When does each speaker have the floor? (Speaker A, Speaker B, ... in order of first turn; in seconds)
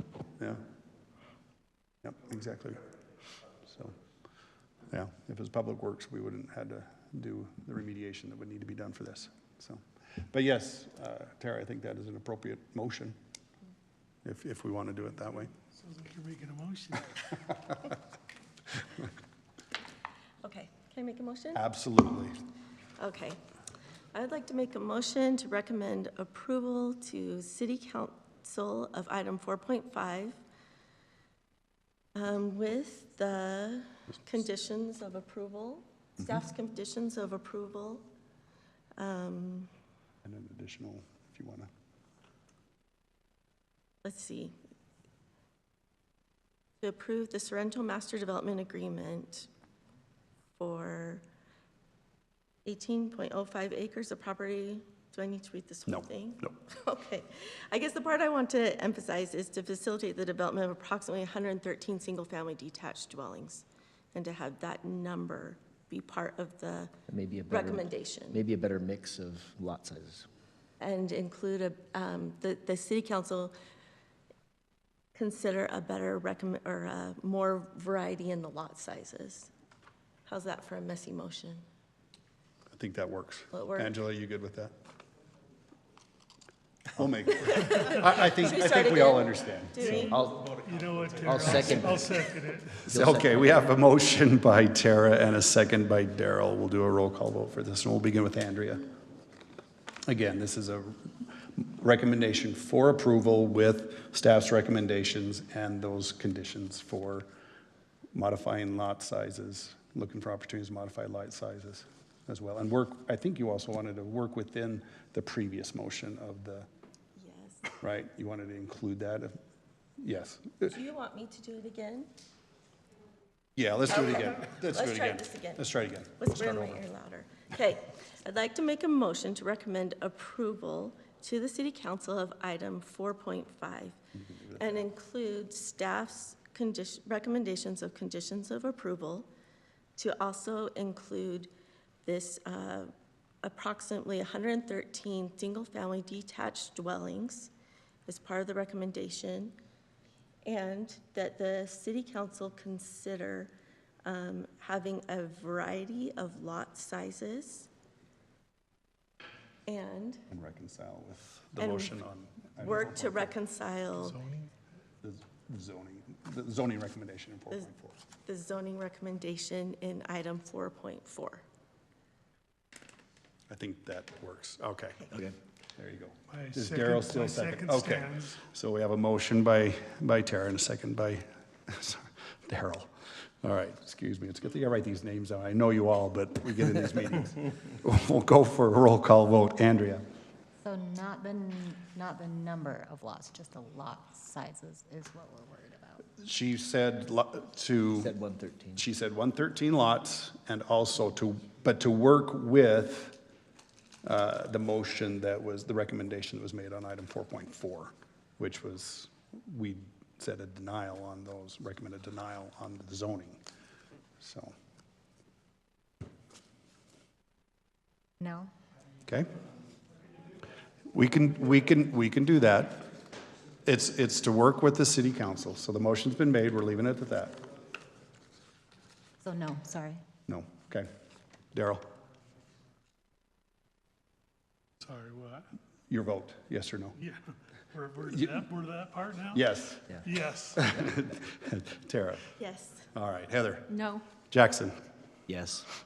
Speaker A: 2.0-2.8, 3.7-4.0, 4.9-13.2, 14.2-15.5, 21.6-22.3, 40.2-41.7, 55.9-56.5, 82.7-84.7, 87.0-92.2, 92.9-98.9, 100.1-107.3, 108.1-116.7, 117.8-119.4, 120.0-120.7, 123.6-126.8, 160.3-163.4, 165.0-168.0, 173.5-175.3, 175.8-190.0, 196.2-198.1, 198.8-203.2, 204.0-213.4, 214.2-214.5, 220.9-222.9, 223.7-227.4, 230.3-230.9, 231.5-231.8, 235.9-237.0, 238.1-238.4, 239.3-239.9, 240.6-242.3, 242.9-244.8
Speaker B: 15.8-17.3, 89.8-92.9, 164.1-164.5, 176.3-178.4, 234.8-235.5, 237.7-239.4, 240.0-240.7
Speaker C: 20.4-21.6, 23.0-23.4, 24.1-30.4, 32.1-38.1, 39.0-39.7, 44.0-44.5, 46.8-49.5, 50.6-51.2, 52.6-66.9, 67.5-68.4, 70.8-73.5, 75.2-79.5, 80.3-81.7, 83.5-84.0, 87.4-90.2, 117.2-117.7, 120.6-122.1, 123.9-134.0, 134.5-139.3, 140.0-141.5, 142.0-142.9, 143.4-147.5, 148.1-149.6, 150.5-153.5, 154.1-157.7, 159.7-160.2, 161.6-162.0, 162.6-164.2, 168.2-171.4, 242.4-242.9
Speaker D: 67.1-70.3, 89.9-90.5, 91.2-92.1, 92.9-93.7, 198.0-198.9, 245.3-245.7
Speaker E: 190.6-196.1, 218.2-218.5, 229.2-230.0